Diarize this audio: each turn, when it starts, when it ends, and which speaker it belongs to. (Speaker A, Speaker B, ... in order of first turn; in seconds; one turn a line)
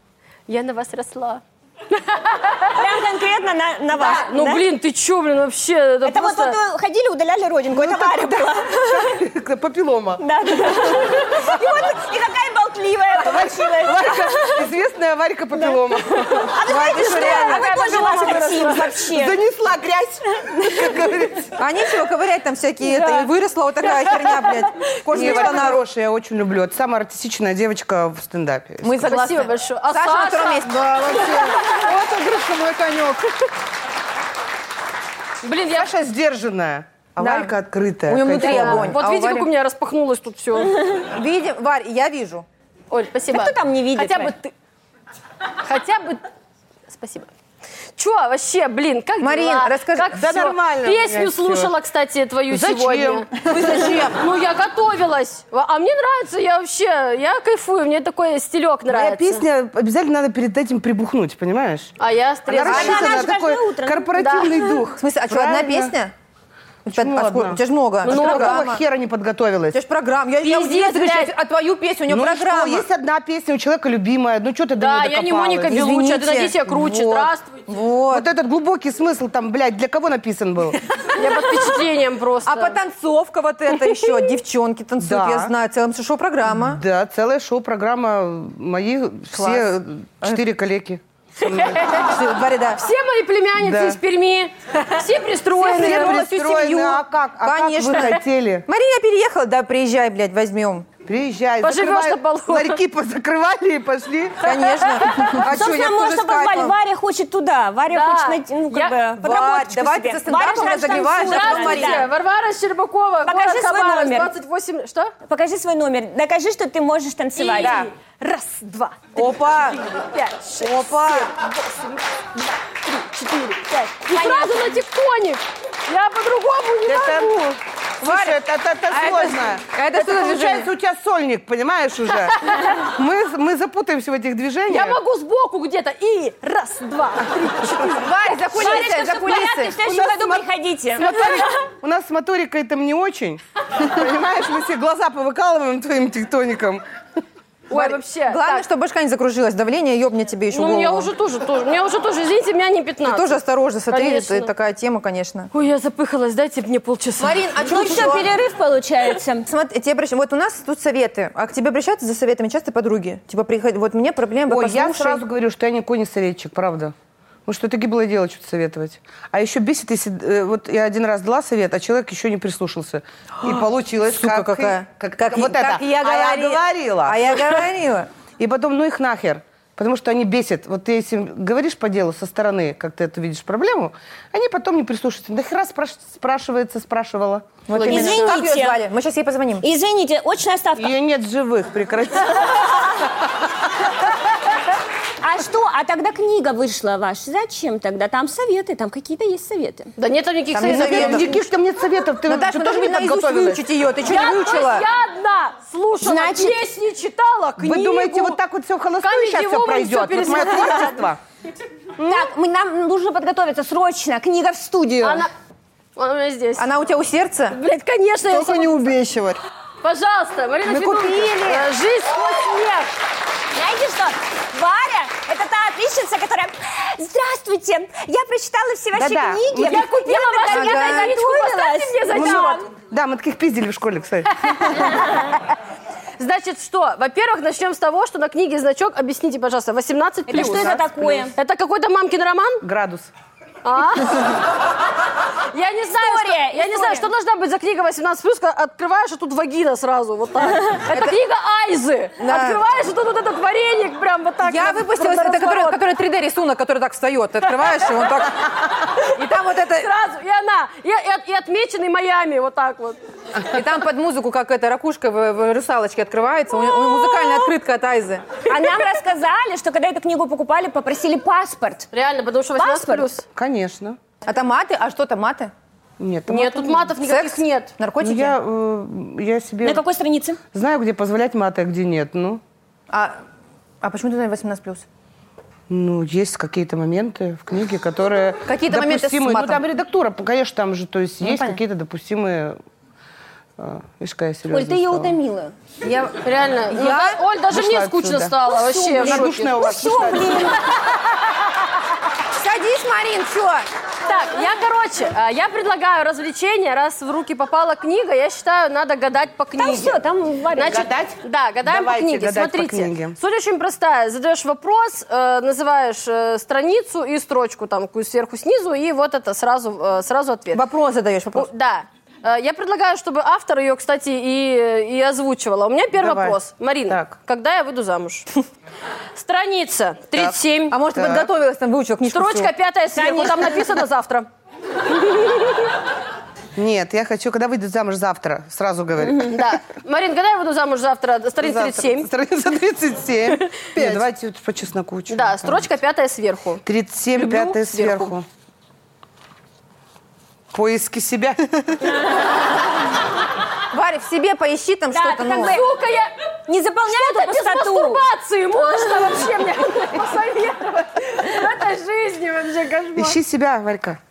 Speaker A: 0.5-2.8
Speaker B: 2.7-4.6
Speaker A: 3.9-6.6
Speaker B: 6.0-9.2
Speaker C: 7.7-10.2
Speaker B: 10.2-14.7
Speaker C: 13.2-16.6
Speaker B: 16.3-19.4
Speaker D: 16.6-18.8
Speaker A: 17.6-18.5
Speaker C: 18.9-21.5
Speaker D: 21.5-25.8
Speaker B: 22.9-23.2
Speaker C: 25.1-29.1
Speaker D: 28.8-33.2
Speaker A: 29.0-30.7
Speaker E: 30.9-32.4
Speaker A: 35.4-35.9
Speaker C: 35.7-38.9
Speaker D: 37.2-39.5
Speaker A: 38.3-40.8
Speaker D: 41.0-42.5
Speaker A: 42.9-44.5
Speaker B: 43.3-44.4
Speaker A: 45.6-46.2
Speaker A: 46.9-47.3
Speaker A: 48.0-59.4
Speaker D: 49.2-50.2
Speaker C: 50.1-51.7
Speaker C: 52.5-53.3
Speaker D: 53.4-54.2
Speaker C: 58.9-61.9
Speaker A: 62.0-63.3
Speaker C: 62.5-65.9
Speaker B: 62.6-64.8
Speaker A: 64.2-64.6
Speaker D: 65.0-66.1
Speaker D: 66.8-68.8
Speaker C: 66.9-69.8
Speaker A: 68.0-68.7
Speaker D: 69.7-72.8
Speaker A: 70.4-71.3
Speaker C: 72.1-75.8
Speaker A: 74.8-77.6
Speaker D: 75.7-78.3
Speaker C: 78.1-80.8
Speaker D: 81.0-81.3
Speaker A: 81.1-82.8
Speaker D: 82.4-86.8
Speaker C: 85.0-85.5
Speaker C: 86.5-92.0
Speaker D: 89.3-89.7
Speaker A: 91.4-92.0
Speaker D: 91.8-92.8
Speaker A: 92.8-97.0
Speaker C: 93.6-94.0
Speaker C: 95.5-98.6
Speaker D: 95.8-96.3
Speaker D: 97.4-100.9
Speaker C: 101.0-104.5
Speaker A: 101.6-102.8
Speaker D: 104.4-106.7
Speaker B: 105.2-112.1
Speaker C: 105.5-106.6
Speaker A: 107.9-109.0
Speaker D: 109.2-112.1
Speaker A: 111.2-115.1
Speaker B: 113.2-114.3
Speaker B: 115.2-117.9
Speaker A: 117.3-127.6
Speaker D: 119.1-119.8
Speaker C: 120.6-121.3
Speaker B: 124.1-124.7
Speaker C: 126.8-127.4
Speaker D: 128.0-130.7
Speaker C: 128.0-135.0
Speaker A: 134.7-138.7
Speaker D: 137.9-139.7
Speaker B: 138.5-141.4
Speaker C: 139.8-146.8
Speaker A: 141.2-141.4
Speaker A: 147.7-148.6
Speaker D: 147.7-151.1
Speaker A: 150.5-153.4
Speaker D: 153.0-155.5
Speaker A: 153.9-154.5
Speaker A: 155.5-157.5
Speaker D: 157.2-158.3
Speaker B: 157.6-159.5
Speaker D: 159.4-165.2
Speaker C: 164.5-166.9
Speaker C: 167.4-177.6
Speaker D: 173.4-178.1
Speaker C: 178.4-187.6
Speaker D: 187.7-189.7
Speaker A: 187.7-188.3
Speaker B: 187.8-188.8
Speaker B: 189.6-190.9
Speaker C: 190.8-192.9
Speaker B: 195.2-199.9
Speaker A: 200.0-201.4
Speaker D: 200.5-201.3
Speaker C: 200.6-203.6
Speaker D: 202.2-204.9
Speaker A: 204.0-208.4
Speaker B: 206.0-206.6
Speaker C: 207.6-211.2
Speaker A: 209.0-211.1
Speaker B: 212.0-215.3
Speaker A: 215.0-215.3
Speaker A: 215.9-216.7
Speaker D: 216.6-217.6
Speaker A: 217.5-218.9
Speaker E: 218.2-219.4
Speaker A: 219.8-222.9
Speaker C: 220.7-221.6
Speaker B: 223.5-232.6
Speaker C: 228.9-229.9
Speaker A: 229.6-232.7
Speaker D: 230.5-231.1
Speaker C: 232.1-234.6
Speaker A: 234.4-235.4
Speaker A: 236.2-242.6
Speaker B: 240.3-241.3
Speaker C: 240.3-241.3
Speaker C: 242.6-243.1
Speaker A: 243.6-244.3
Speaker A: 245.5-255.8
Speaker B: 245.9-247.1
Speaker D: 252.2-252.6
Speaker D: 254.4-259.9
Speaker A: 259.5-263.0
Speaker D: 263.4-268.4
Speaker B: 268.4-271.9
Speaker A: 271.9-273.2
Speaker B: 272.6-273.1
Speaker C: 273.3-274.0
Speaker D: 274.2-275.5
Speaker C: 276.0-276.9
Speaker A: 276.3-277.7
Speaker D: 277.0-278.4
Speaker C: 278.0-279.8
Speaker B: 279.6-280.4
Speaker C: 280.5-282.4
Speaker D: 282.9-283.1
Speaker D: 283.8-284.8
Speaker C: 285.7-292.6
Speaker D: 288.4-289.6
Speaker D: 291.2-291.6
Speaker C: 293.6-295.1
Speaker B: 294.5-295.5
Speaker D: 295.8-297.2
Speaker A: 296.2-299.6
Speaker C: 297.5-298.3
Speaker B: 298.5-300.6
Speaker C: 299.0-300.5
Speaker D: 302.3-303.7
Speaker A: 304.0-310.0
Speaker B: 309.6-310.9
Speaker A: 310.5-320.6
Speaker C: 310.6-313.2
Speaker D: 320.5-321.5
Speaker A: 321.3-328.3
Speaker C: 326.0-326.4
Speaker A: 329.1-330.8
Speaker D: 330.7-332.5
Speaker C: 330.9-331.3
Speaker A: 332.1-334.3
Speaker B: 332.9-333.7
Speaker A: 334.9-335.7
Speaker C: 336.6-339.5
Speaker A: 339.2-342.1
Speaker C: 341.4-345.7
Speaker E: 343.7-344.1
Speaker A: 345.1-346.6
Speaker C: 346.6-348.2
Speaker A: 347.1-348.1
Speaker C: 350.5-351.4
Speaker D: 353.7-355.6
Speaker B: 354.9-355.7
Speaker A: 355.3-356.1
Speaker B: 356.5-358.0
Speaker A: 356.9-363.2
Speaker C: 362.9-364.0